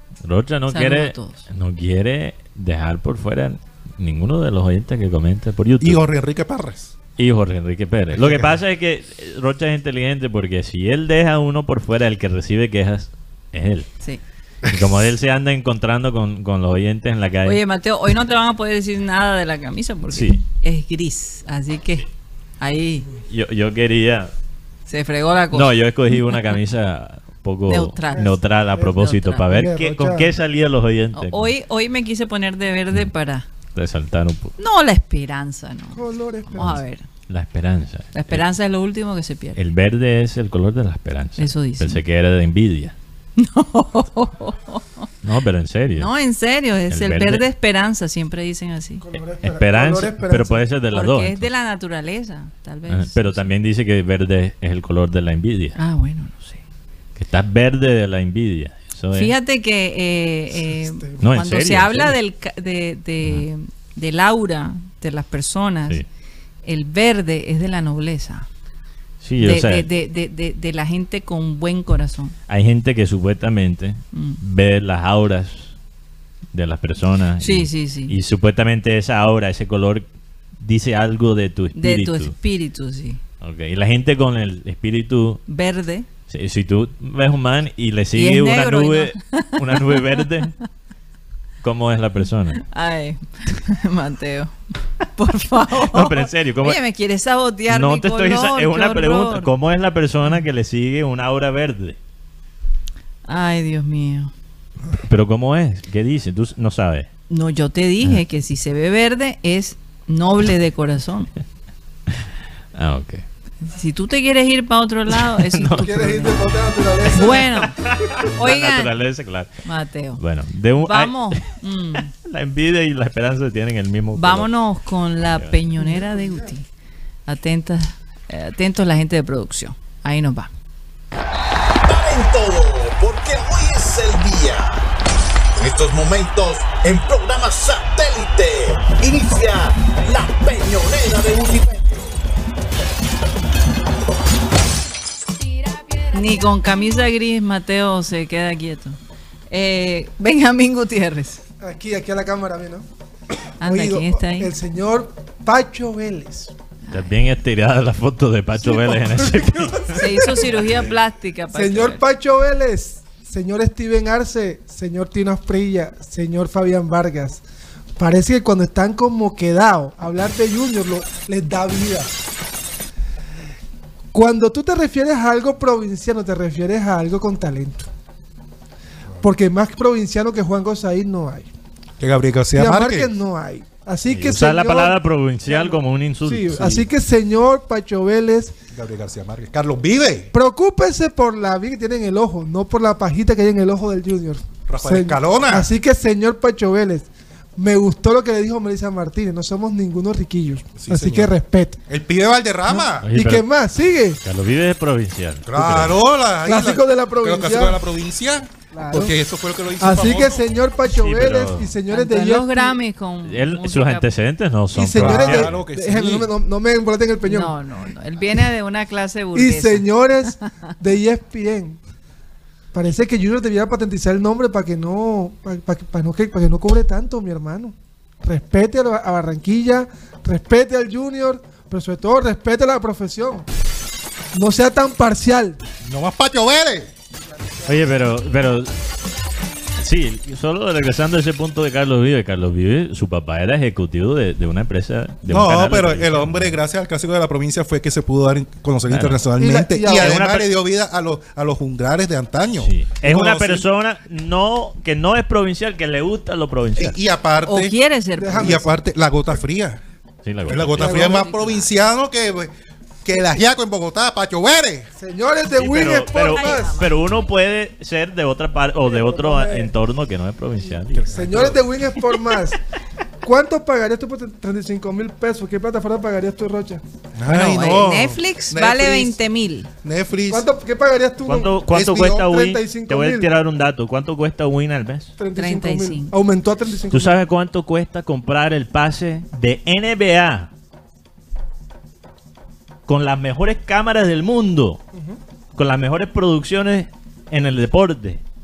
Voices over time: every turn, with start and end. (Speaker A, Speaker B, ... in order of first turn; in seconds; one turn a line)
Speaker A: 0.2-6.1
Speaker B: 0.7-1.4
Speaker C: 5.8-6.9
Speaker A: 7.2-13.9
Speaker C: 8.1-8.6
Speaker A: 14.6-17.6
Speaker B: 17.4-22.1
Speaker A: 20.1-20.4
Speaker B: 22.6-23.1
Speaker A: 23.3-24.3
Speaker B: 24.9-25.7
Speaker A: 25.5-31.5
Speaker B: 27.7-29.4
Speaker D: 28.1-28.9
Speaker D: 29.5-30.3
Speaker B: 31.1-33.5
Speaker A: 33.7-34.5
Speaker B: 34.6-37.0
Speaker D: 35.9-36.8
Speaker A: 37.3-38.4
Speaker B: 38.1-39.6
Speaker A: 39.5-42.9
Speaker B: 41.4-42.0
Speaker B: 43.4-45.1
Speaker A: 45.2-46.1
Speaker B: 46.0-49.0
Speaker A: 46.9-47.4
Speaker D: 49.0-50.6
Speaker A: 49.4-51.5
Speaker B: 50.9-53.5
Speaker A: 52.9-55.8
Speaker B: 55.8-56.6
Speaker A: 57.1-59.3
Speaker B: 59.1-66.0
Speaker D: 60.8-61.2
Speaker A: 61.2-62.1
Speaker B: 66.6-68.5
Speaker A: 69.2-69.9
Speaker B: 69.4-72.3
Speaker A: 72.5-75.7
Speaker B: 74.1-74.4
Speaker A: 76.5-80.0
Speaker B: 77.4-78.1
Speaker A: 80.6-82.3
Speaker B: 81.7-83.2
Speaker A: 83.4-85.4
Speaker B: 85.5-86.0
Speaker A: 86.3-90.5
Speaker B: 88.1-90.2
Speaker A: 91.6-92.6
Speaker B: 92.6-99.5
Speaker A: 95.8-96.8
Speaker A: 97.7-102.0
Speaker B: 103.3-104.3
Speaker A: 105.0-107.1
Speaker B: 107.3-111.3
Speaker A: 112.7-113.2
Speaker B: 113.6-116.4
Speaker A: 115.3-116.1
Speaker D: 115.8-117.5
Speaker B: 117.0-118.9
Speaker A: 117.3-119.5
Speaker B: 119.6-120.2
Speaker A: 120.2-121.4
Speaker B: 120.8-122.1
Speaker A: 122.1-124.5
Speaker B: 124.1-126.7
Speaker D: 125.8-126.2
Speaker B: 127.3-130.5
Speaker E: 131.8-134.8
Speaker E: 135.6-142.2
Speaker B: 146.1-149.0
Speaker B: 149.5-151.4
Speaker D: 151.6-152.8
Speaker B: 153.6-154.5
Speaker D: 153.6-156.5
Speaker A: 156.9-160.5
Speaker D: 158.6-160.5
Speaker B: 159.9-162.0
Speaker D: 161.5-167.4
Speaker D: 168.0-172.1
Speaker D: 174.1-177.9
Speaker D: 179.2-181.5
Speaker C: 182.0-183.1
Speaker D: 182.5-188.5
Speaker A: 184.1-186.8
Speaker C: 188.7-190.3
Speaker D: 190.3-201.8
Speaker C: 194.7-195.7
Speaker C: 200.8-201.3
Speaker C: 201.9-203.1
Speaker D: 202.7-204.2
Speaker A: 203.0-203.4
Speaker A: 204.2-206.0
Speaker C: 205.4-210.4
Speaker D: 206.4-207.8
Speaker D: 208.7-209.1
Speaker D: 209.8-212.8
Speaker A: 210.9-211.7
Speaker B: 211.9-214.1
Speaker A: 213.2-215.6
Speaker D: 214.7-217.5
Speaker C: 214.9-216.3
Speaker B: 217.2-219.8
Speaker D: 219.3-221.8
Speaker D: 222.7-233.5
Speaker D: 234.3-235.6
Speaker C: 235.8-236.9
Speaker A: 237.7-238.7
Speaker A: 239.8-246.6
Speaker C: 245.2-253.6
Speaker A: 248.9-249.2
Speaker D: 249.4-250.2
Speaker A: 249.9-250.5
Speaker A: 252.6-257.0
Speaker C: 256.8-257.8
Speaker B: 257.4-258.6
Speaker D: 258.2-258.7
Speaker C: 258.3-259.8
Speaker A: 260.2-261.1
Speaker C: 260.5-262.5
Speaker D: 260.8-261.2
Speaker B: 260.8-261.7
Speaker C: 263.0-264.9
Speaker D: 265.0-266.8
Speaker A: 265.6-271.3
Speaker B: 266.1-267.0
Speaker D: 268.9-269.7
Speaker C: 270.9-271.6
Speaker D: 271.1-272.6
Speaker D: 273.2-276.8
Speaker C: 277.1-279.2
Speaker B: 277.3-279.7
Speaker C: 279.8-280.5
Speaker D: 280.3-281.6
Speaker A: 281.2-285.1
Speaker C: 281.7-282.3
Speaker D: 282.2-283.3
Speaker D: 285.2-287.2
Speaker B: 285.4-286.1
Speaker A: 286.9-290.5
Speaker A: 292.9-294.8
Speaker D: 294.9-295.2
Speaker A: 295.6-298.2